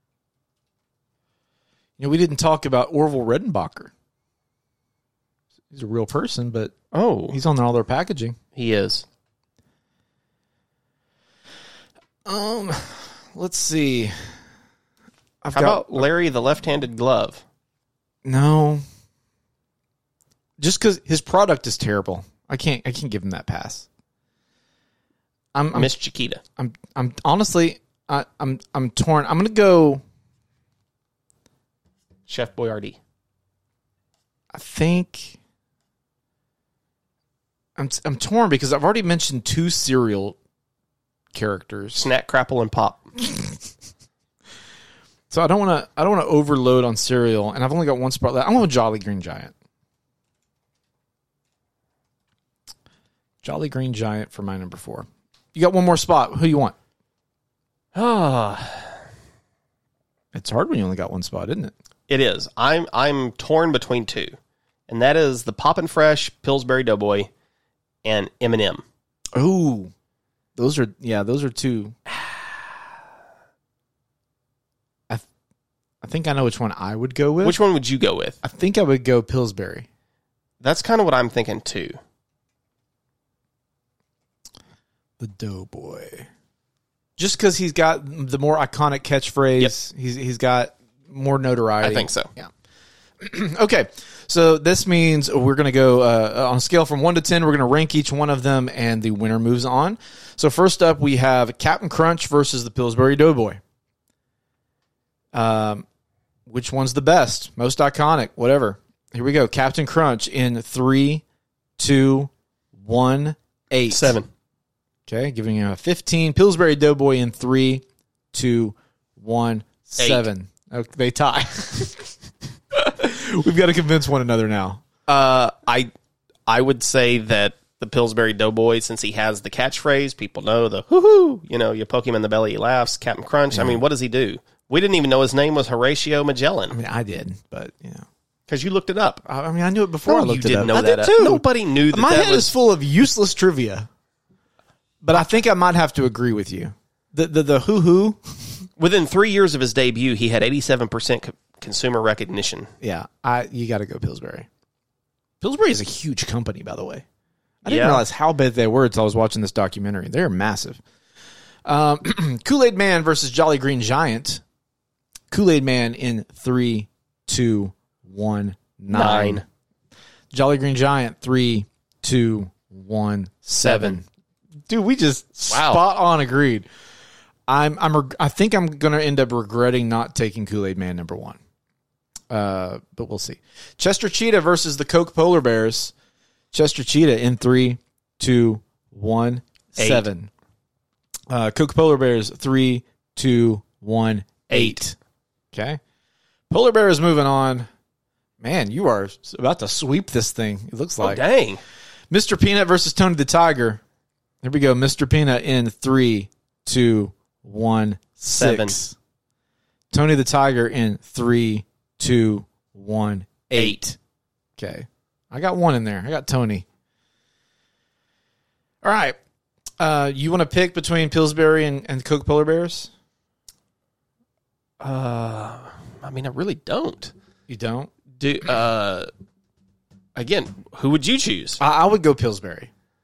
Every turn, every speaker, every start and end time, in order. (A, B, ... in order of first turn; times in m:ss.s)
0:02.0-0:03.9 A
0:05.7-0:06.7 A
0:06.9-0:07.4 B
0:07.3-0:08.4 A
0:08.6-0:09.1 B
0:12.2-0:14.3 A
0:15.4-0:16.1 A
0:15.5-0:17.4 B
0:18.2-0:18.8 A
0:20.6-0:23.9 A
0:25.5-0:26.0 A
0:25.7-0:26.4 B
0:26.6-0:30.0 A
0:32.3-0:33.0 B
0:34.5-0:35.4 A
0:37.8-0:40.4 A
0:41.3-0:42.1 A
0:42.0-0:43.1 B
0:45.3-0:49.5 A
0:53.4-0:56.8 A
0:58.0-0:58.9 B
1:00.3-1:01.7 A
1:02.1-1:04.4 B
1:04.9-1:07.3 B
1:08.0-1:08.8 B
1:09.3-1:09.9 A
1:10.6-1:12.0 A
1:16.0-1:17.6 A
1:17.4-1:18.4 B
1:18.4-1:19.9 A
1:20.6-1:22.0 B
1:25.2-1:26.3 A
1:27.2-1:32.5 A
1:31.8-1:32.3 B
1:33.2-1:43.6 A
1:45.3-1:45.9 A
1:46.5-1:51.2 A
1:51.8-1:54.2 A
1:53.9-1:54.3 B
1:55.1-2:02.1 A
2:00.0-2:00.3 B
2:02.7-2:05.0 A
2:05.1-2:05.9 B
2:06.5-2:16.8 B
2:13.5-2:13.8 A
2:16.7-2:18.1 A
2:18.5-2:19.2 B
2:19.2-2:23.9 A
2:20.1-2:22.5 B
2:25.0-2:28.6 A
2:28.8-2:32.7 B
2:32.8-2:34.5 A
2:35.4-2:37.0 A
2:37.6-2:40.8 A
2:37.7-2:38.0 B
2:41.6-2:44.4 A
2:45.3-2:49.4 A
2:48.9-2:49.4 B
2:50.3-2:54.1 A
2:53.6-2:54.0 B
2:54.7-2:56.7 A
2:55.5-2:55.8 B
2:57.5-3:01.4 A
3:02.3-3:05.9 A
3:06.5-3:10.3 A
3:09.8-3:10.0 B
3:11.3-3:15.0 A
3:14.5-3:14.8 B
3:15.5-3:15.8 A
3:16.5-3:17.7 A
3:18.4-3:21.2 A
3:21.0-3:21.6 B
3:22.1-3:23.8 A
3:24.4-3:29.0 A
3:28.3-3:28.8 B
3:29.9-3:34.0 A
3:34.6-3:36.7 A
3:38.8-3:39.2 A
3:39.8-3:42.9 A
3:44.8-3:47.1 B
3:47.5-3:47.9 A
3:48.2-3:49.1 B
3:50.2-3:51.6 B
3:51.6-3:52.7 A